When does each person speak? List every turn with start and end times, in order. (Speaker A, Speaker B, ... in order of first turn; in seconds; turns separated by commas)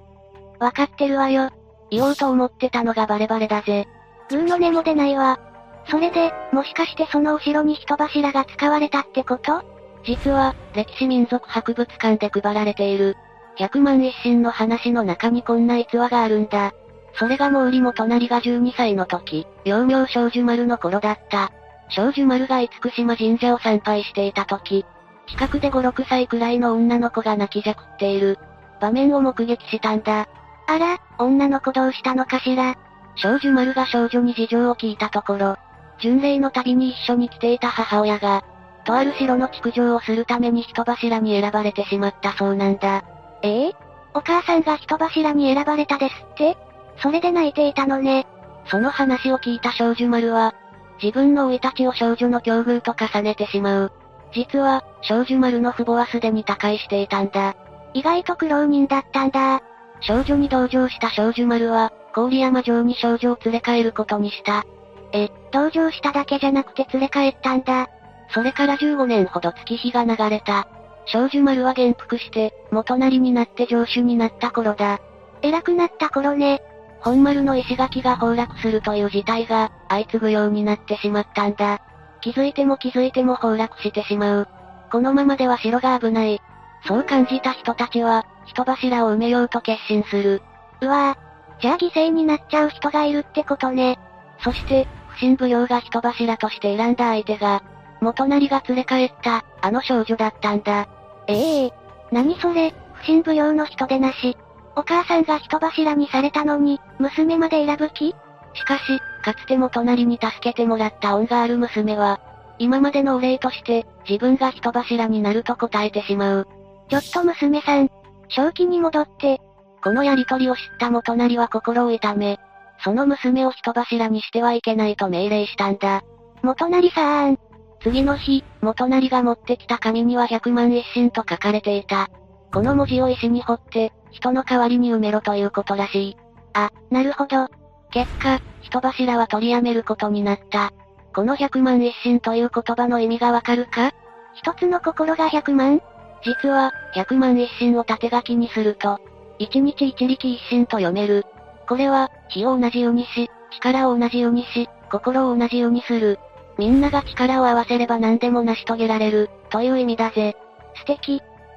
Speaker A: 0.6-161.2